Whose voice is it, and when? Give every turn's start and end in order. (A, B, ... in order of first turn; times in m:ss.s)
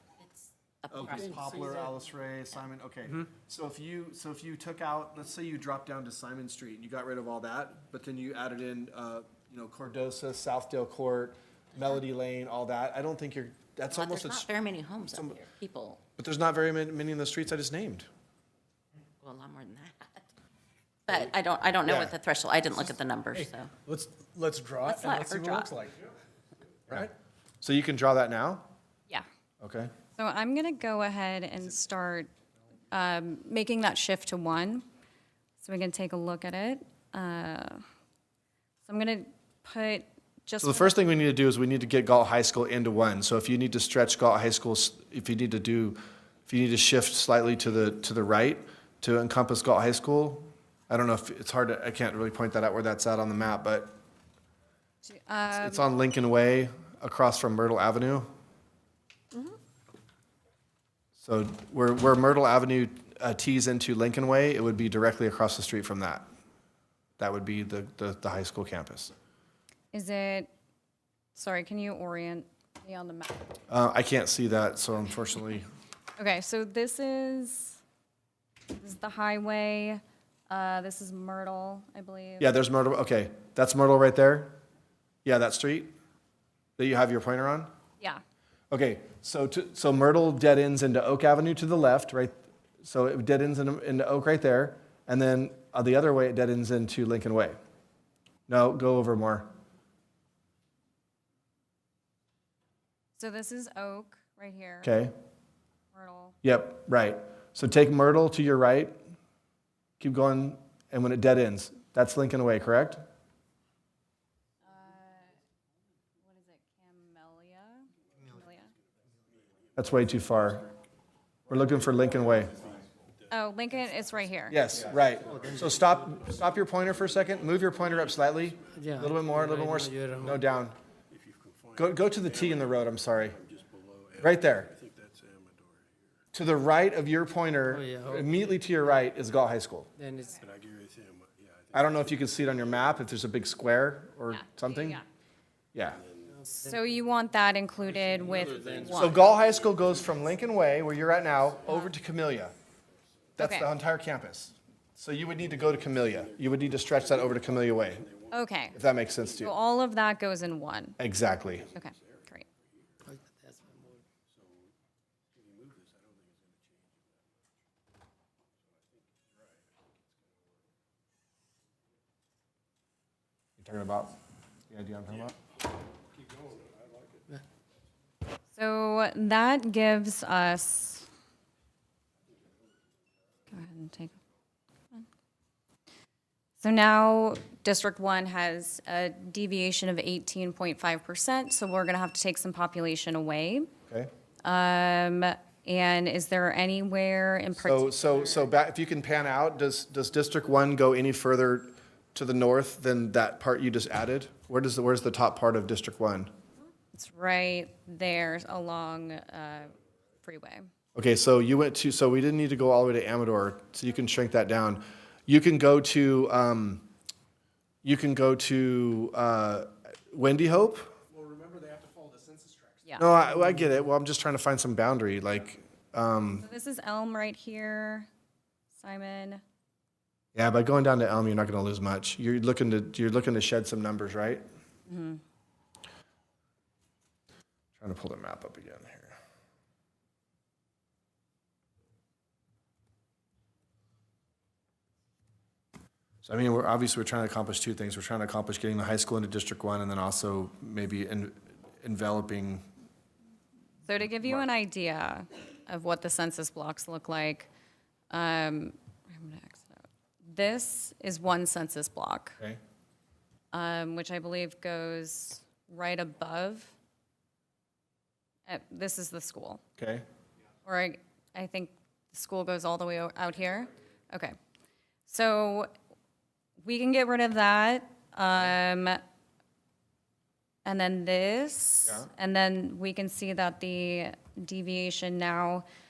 0:00.2-0:01.9 A
0:00.9-0:14.5 B
0:13.9-0:16.0 A
0:15.1-0:15.4 B
0:16.2-0:18.1 B
0:19.2-0:20.2 A
0:21.0-0:23.7 A
0:21.8-0:22.1 B
0:23.3-0:26.1 C
0:24.8-0:25.8 A
0:27.6-0:28.7 B
0:29.6-0:29.9 B
0:30.1-0:32.3 D
0:32.9-0:34.8 D
0:35.6-0:37.8 D
0:38.8-0:41.0 D
0:40.6-0:53.9 B
0:55.0-0:55.9 D
0:55.5-0:58.3 B
1:01.2-1:06.2 B
1:07.2-1:09.1 B
1:09.9-1:10.5 D
1:11.3-1:13.5 D
1:13.7-1:15.7 B
1:16.2-1:17.8 D
1:18.7-1:22.5 D
1:22.4-1:24.6 B
1:25.2-1:25.9 B
1:26.8-1:27.7 B
1:28.7-1:37.6 B
1:38.5-1:39.5 B
1:43.2-1:44.9 D
1:44.8-1:45.1 B
1:45.9-1:46.4 D
1:46.4-1:49.0 B
1:50.0-1:53.0 B
1:54.6-1:55.4 D
1:56.2-1:58.7 D
1:58.2-2:00.7 C
1:59.8-2:00.7 B
2:01.5-2:02.5 B
2:01.5-2:03.3 C
2:03.3-2:04.6 D
2:04.5-2:10.8 B
2:04.7-2:08.9 C
2:05.2-2:06.3 E
2:08.7-2:10.4 E
2:11.1-2:16.1 C
2:11.8-2:13.4 B
2:14.2-2:14.7 B
2:16.3-2:19.9 B
2:17.7-2:18.4 E
2:20.0-2:20.4 E
2:20.2-2:20.4 D
2:20.4-2:22.9 C
2:21.7-2:25.0 B
2:24.3-2:25.0 D
2:25.7-2:26.0 B
2:25.9-2:26.4 C
2:26.3-2:26.9 E
2:26.5-2:29.2 D
2:27.9-2:29.0 E
2:28.2-2:30.6 C
2:28.9-2:32.5 B
2:31.3-2:31.8 C
2:31.7-2:31.9 D
2:33.4-2:38.1 B
2:33.4-2:33.7 D
2:35.4-2:38.4 C
2:38.3-2:38.8 D
2:38.7-2:39.5 B
2:39.1-2:39.4 C
2:39.4-2:41.0 D
2:41.0-2:41.7 B
2:41.5-2:43.0 C
2:41.7-2:42.4 D
2:43.0-2:44.0 E
2:44.3-2:44.7 C
2:45.3-2:47.4 C
2:48.7-2:50.5 C
2:53.6-2:54.1 B
2:54.7-2:55.4 B
2:56.0-2:57.4 C
2:58.5-3:01.1 D
3:03.5-3:04.1 D
3:06.6-3:13.7 D
3:14.4-3:18.5 D
3:17.6-3:26.3 B
3:26.9-3:30.6 D
3:30.9-3:36.8 B
3:37.8-3:40.9 B
3:41.1-3:43.0 C
3:43.0-3:46.4 B
3:46.4-3:48.1 D
3:48.8-3:49.4 D
3:50.3-3:54.4 B
3:54.8-3:55.2 D
3:57.8-3:59.2 B
4:06.2-4:12.6 B
4:13.9-4:17.5 D
4:18.1-4:22.4 D
4:23.5-4:26.7 D
4:28.4-4:29.6 D
4:29.8-4:30.0 B
4:30.6-4:34.3 D
4:35.1-4:35.7 D
4:36.6-4:39.0 D
4:40.6-4:45.6 D